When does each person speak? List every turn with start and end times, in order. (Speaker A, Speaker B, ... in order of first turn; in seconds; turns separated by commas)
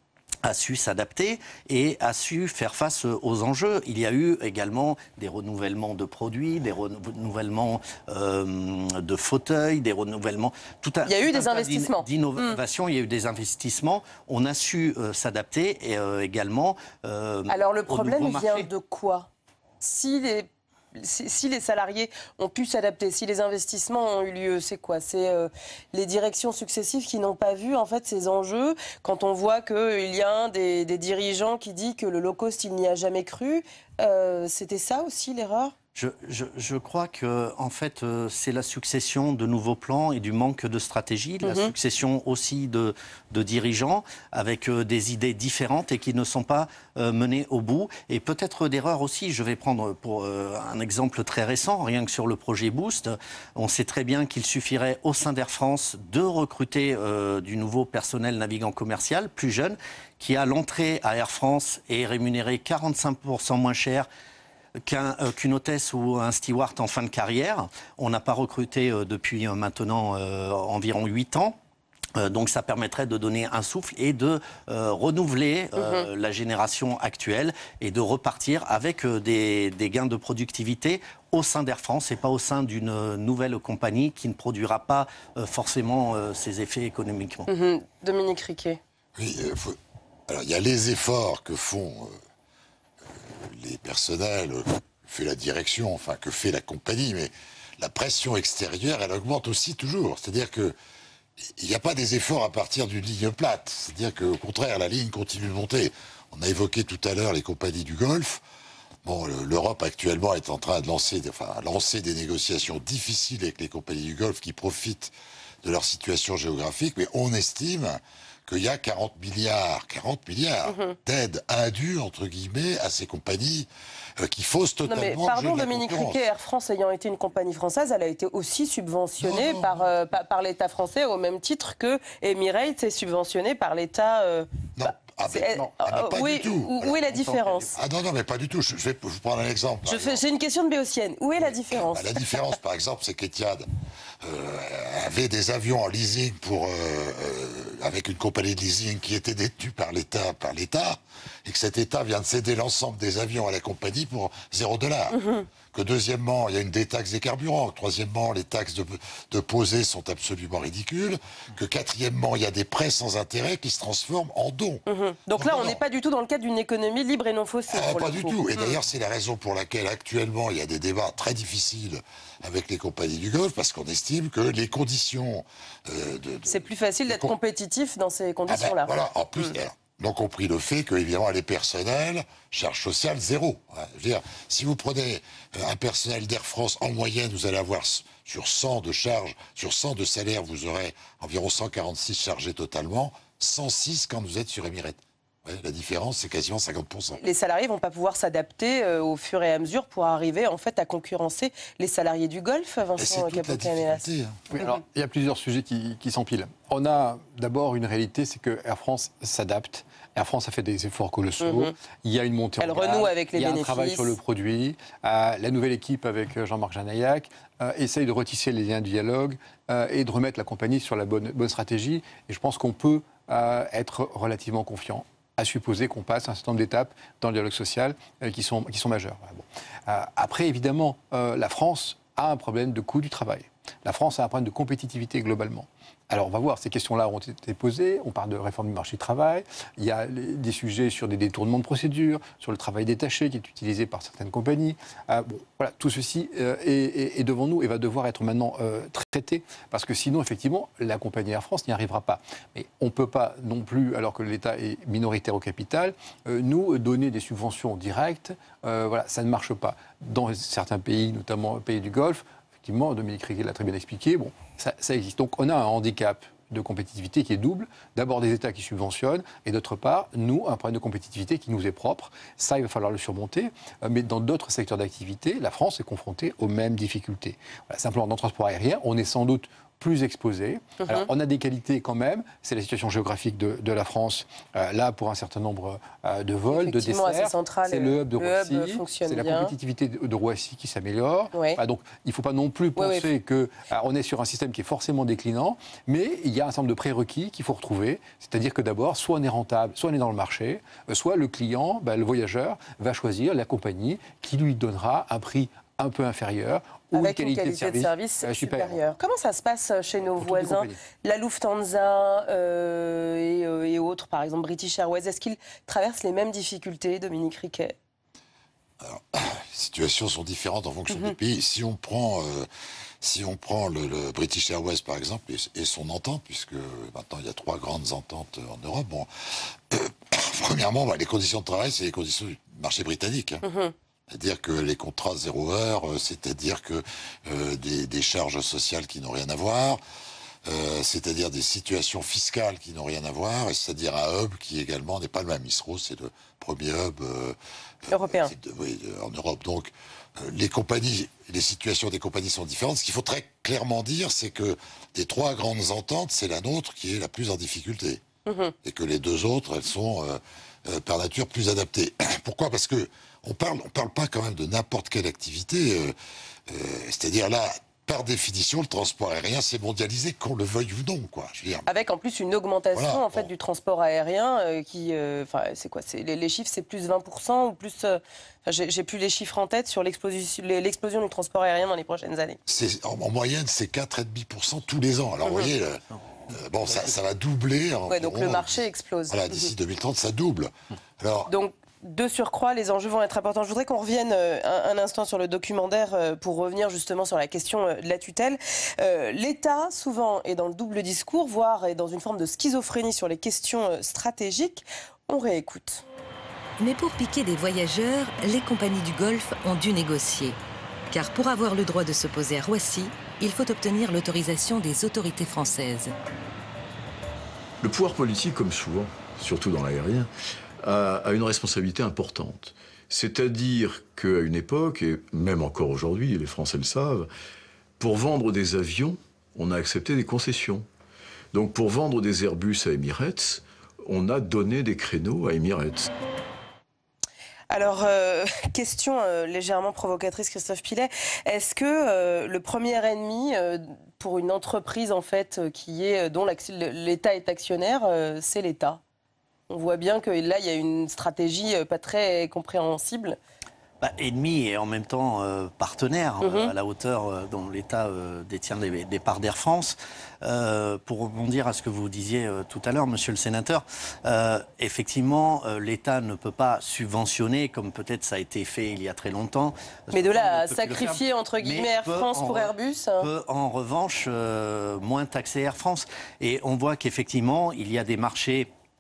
Speaker A: 0.5-18.7, Speaker B: 11.1-12.6, Speaker B: 17.5-19.3, Speaker B: 19.8-35.7, Speaker A: 36.0-64.1, Speaker B: 41.4-41.7, Speaker A: 64.9-71.6, Speaker A: 72.2-87.5, Speaker B: 75.8-76.0, Speaker B: 87.5-88.8, Speaker C: 89.2-89.8, Speaker C: 90.3-92.1, Speaker C: 93.2-100.8, Speaker C: 101.6-108.4, Speaker C: 109.0-123.7, Speaker B: 120.7-121.0, Speaker C: 124.2-126.2, Speaker B: 124.9-134.5, Speaker C: 129.2-129.7, Speaker C: 134.8-137.2, Speaker B: 135.3-137.8, Speaker D: 137.2-137.6, Speaker C: 137.8-140.2, Speaker B: 139.8-142.2, Speaker C: 141.9-143.7, Speaker C: 144.2-155.2, Speaker B: 155.1-155.5, Speaker C: 155.7-165.8, Speaker B: 164.9-168.8, Speaker C: 167.7-177.3, Speaker B: 176.5-179.6, Speaker C: 178.5-197.2, Speaker B: 197.2-204.8, Speaker C: 203.0-204.4, Speaker D: 204.5-308.8, Speaker B: 211.4-211.7, Speaker B: 212.6-214.2, Speaker B: 286.5-289.5, Speaker B: 291.3-291.6, Speaker B: 292.8-293.1, Speaker B: 306.9-317.8, Speaker D: 310.2-310.8, Speaker C: 318.8-322.5, Speaker C: 323.0-329.1, Speaker C: 329.7-333.4, Speaker B: 333.4-333.7, Speaker C: 334.1-339.8, Speaker C: 340.5-358.0, Speaker B: 347.9-348.3, Speaker B: 358.3-358.6, Speaker C: 358.6-365.9, Speaker C: 366.5-371.7, Speaker B: 371.7-382.4, Speaker C: 372.7-373.3, Speaker C: 382.5-391.3, Speaker B: 385.2-385.5, Speaker B: 387.9-389.5, Speaker B: 391.3-405.9, Speaker E: 406.6-410.4, Speaker E: 410.9-415.9, Speaker F: 417.6-420.1, Speaker F: 420.6-427.1, Speaker F: 427.8-430.7, Speaker F: 431.3-435.9, Speaker B: 437.5-448.8, Speaker B: 449.5-453.2, Speaker A: 453.8-478.5, Speaker B: 456.2-456.5, Speaker B: 469.9-473.1